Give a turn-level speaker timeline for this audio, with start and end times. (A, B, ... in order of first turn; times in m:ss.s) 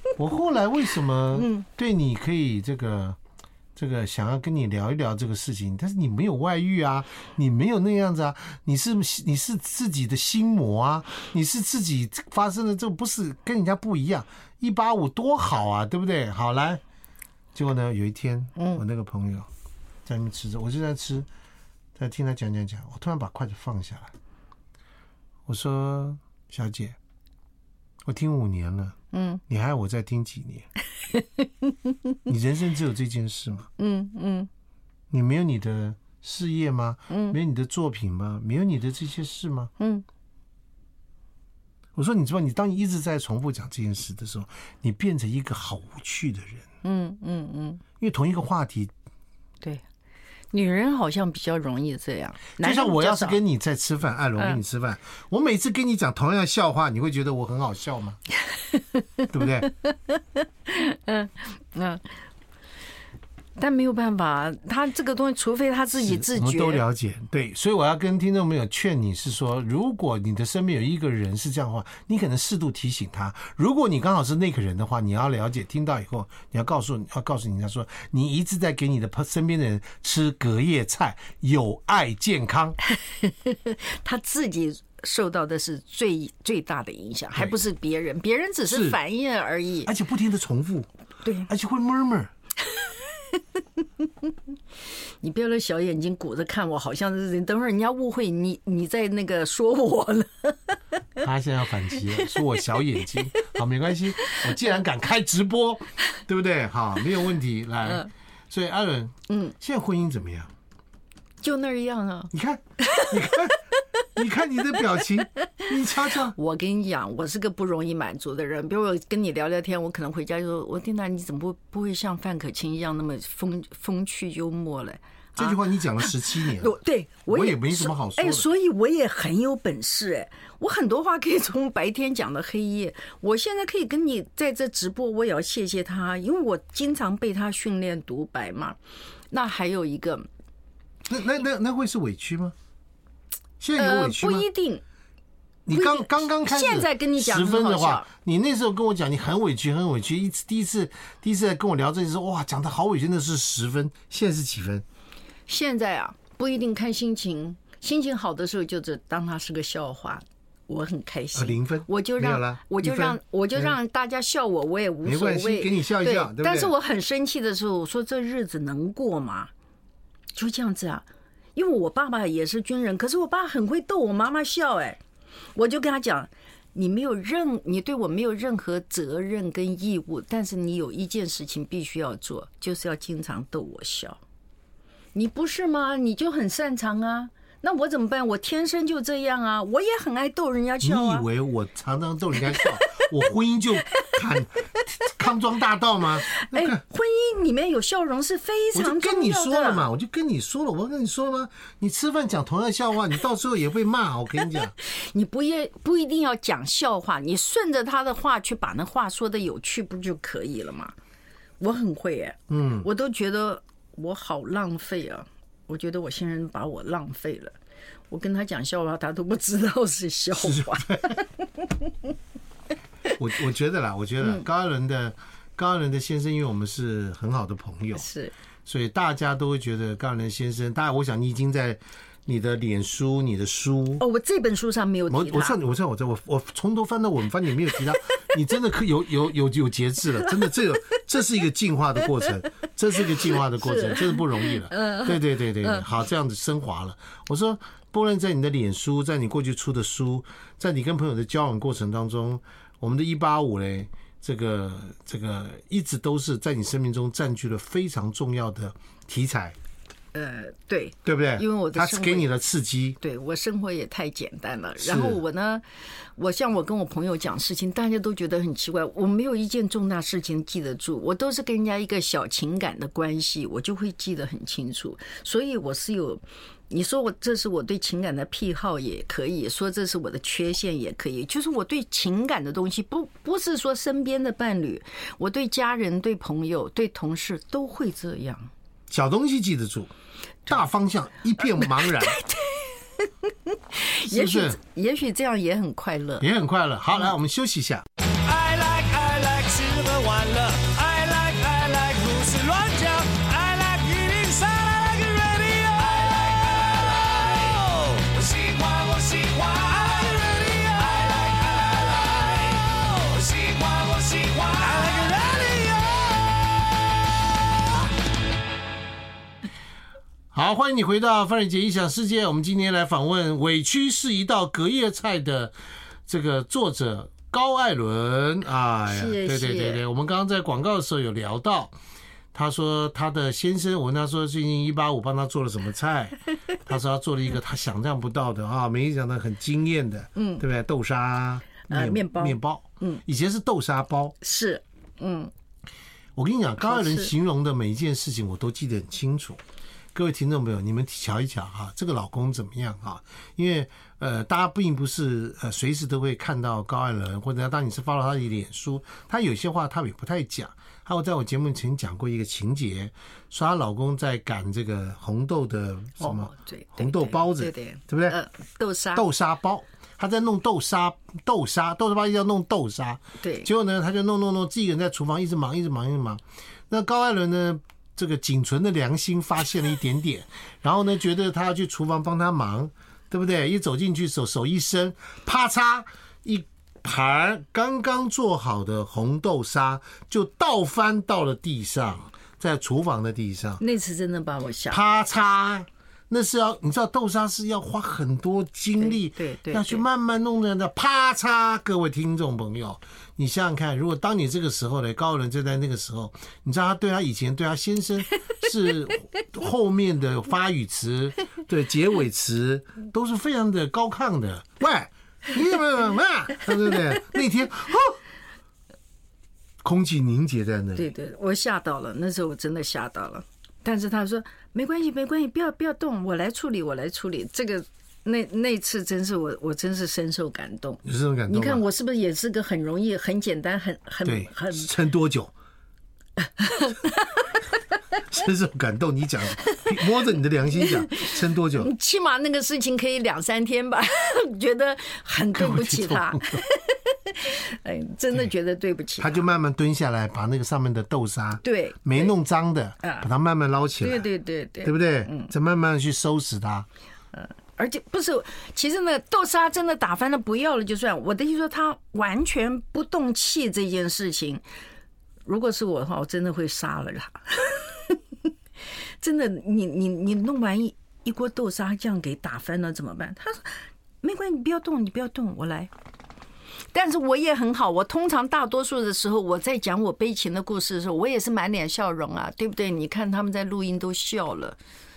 0:00.2-0:03.2 A
0:01.4-0:01.6 B
0:03.8-0:16.8 A
0:17.6-0:19.5 A
0:18.6-0:18.8 B
0:20.1-0:21.3 A
0:22.0-0:24.1 A
0:25.5-0:27.0 A
0:28.0-0:29.0 A
0:29.1-0:29.4 B
0:29.5-0:30.7 A
0:31.1-0:32.0 B
0:32.3-0:33.7 A
0:33.8-0:34.5 B
0:35.1-0:39.7 A
0:37.1-0:37.4 B
0:39.8-0:40.0 B
0:42.0-0:46.6 A
0:46.8-0:47.8 B
0:48.0-0:48.9 A
0:50.5-0:53.4 B
0:52.6-0:58.2 A
0:58.7-1:02.1 B
0:59.3-0:59.7 A
1:03.6-1:06.8 B
1:05.9-1:22.8 A
1:22.9-1:29.9 B
1:28.7-1:29.0 A
1:29.8-1:30.9 A
1:31.2-1:31.5 B
1:31.5-1:32.3 A
1:32.7-1:34.3 B
1:35.2-1:40.8 B
1:41.2-1:50.5 A
1:42.1-1:42.4 B
1:49.3-1:49.6 B
1:51.4-1:52.3 B
1:52.3-1:56.4 A
1:52.8-1:53.1 B
1:56.3-2:18.8 B
2:05.4-2:06.8 A
2:07.3-2:08.4 A
2:19.3-2:20.3 B
2:21.1-2:22.6 A
2:23.6-2:24.5 A
2:23.8-2:24.8 B
2:25.7-2:34.8 A
2:25.7-2:28.1 B
2:35.5-2:49.5 B
2:41.4-2:43.7 A
2:45.0-2:46.7 A
2:50.3-2:55.0 B
2:55.6-3:04.2 B
3:05.1-3:11.3 B
3:10.8-3:16.8 A
3:16.4-3:19.9 B
3:18.7-3:24.7 A
3:24.8-3:30.9 B
3:31.6-3:37.6 B
3:32.5-3:32.9 A
3:38.1-3:42.1 B
3:40.4-3:41.2 A
3:43.1-3:48.1 A
3:44.2-3:44.5 B
3:48.0-3:48.3 B
3:48.7-3:54.0 A
3:54.0-3:55.6 B
3:55.1-4:19.6 A
4:03.1-4:05.8 B
4:20.1-4:22.3 B
4:21.0-4:23.0 A
4:23.0-4:25.6 B
4:24.8-4:25.2 A
4:26.2-4:48.5 B
4:48.9-4:49.9 A
4:50.5-4:52.2 A
4:51.5-4:56.3 B
4:54.0-4:54.6 A
4:56.2-4:57.8 A
4:58.2-5:16.7 C
5:20.3-5:25.5 A
5:26.1-5:31.7 A
5:28.9-5:29.8 B
5:32.3-5:44.2 A
5:40.2-5:40.4 B
5:41.7-5:43.0 B
5:44.2-5:45.3 B
5:46.2-5:49.4 A
5:46.7-5:47.1 B
5:49.9-6:08.2 A
6:06.0-6:09.1 B
6:09.0-6:33.6 A
6:13.2-6:13.5 B
6:33.6-6:35.0 B
6:34.7-6:58.0 A
6:38.8-6:39.8 B
6:59.6-7:00.9 A
7:00.8-7:14.7 B
7:10.8-7:11.6 A
7:14.0-7:15.3 A
7:16.2-7:17.3 B
7:18.1-7:21.7 A
7:20.6-7:29.2 B
7:25.3-7:26.4 A
7:29.0-7:34.1 A
7:31.4-7:32.1 B
7:33.8-7:35.3 B
7:34.6-7:36.7 A
7:37.1-7:44.4 B
7:45.2-7:48.0 B
7:49.0-7:55.7 B
7:56.7-8:04.6 B